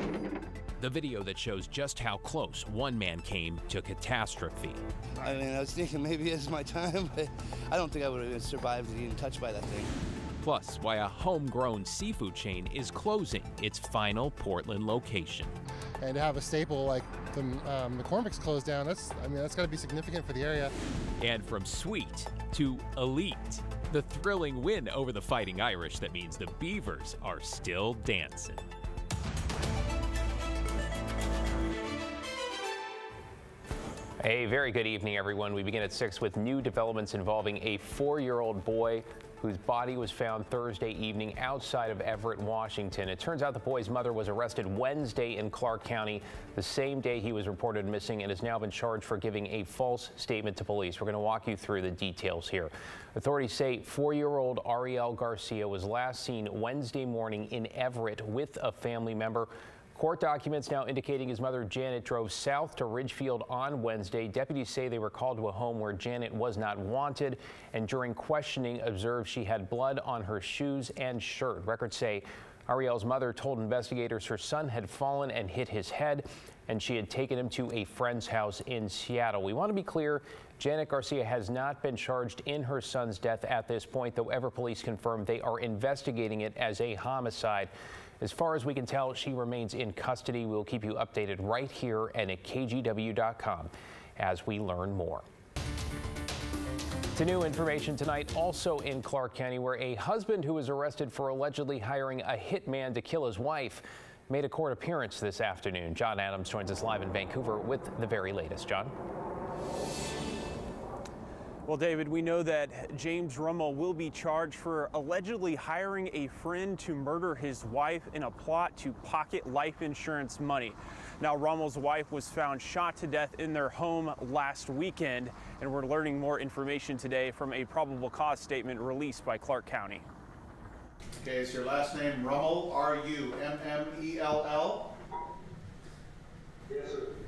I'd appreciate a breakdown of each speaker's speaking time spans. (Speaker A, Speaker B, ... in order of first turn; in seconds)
Speaker A: 0.8-4.8, 10.4-15.5, 21.2-28.6, 34.2-95.2, 97.1-108.9
Speaker B: 5.2-9.9
Speaker C: 16.0-20.7
Speaker D: 111.7-130.0
Speaker E: 131.2-134.9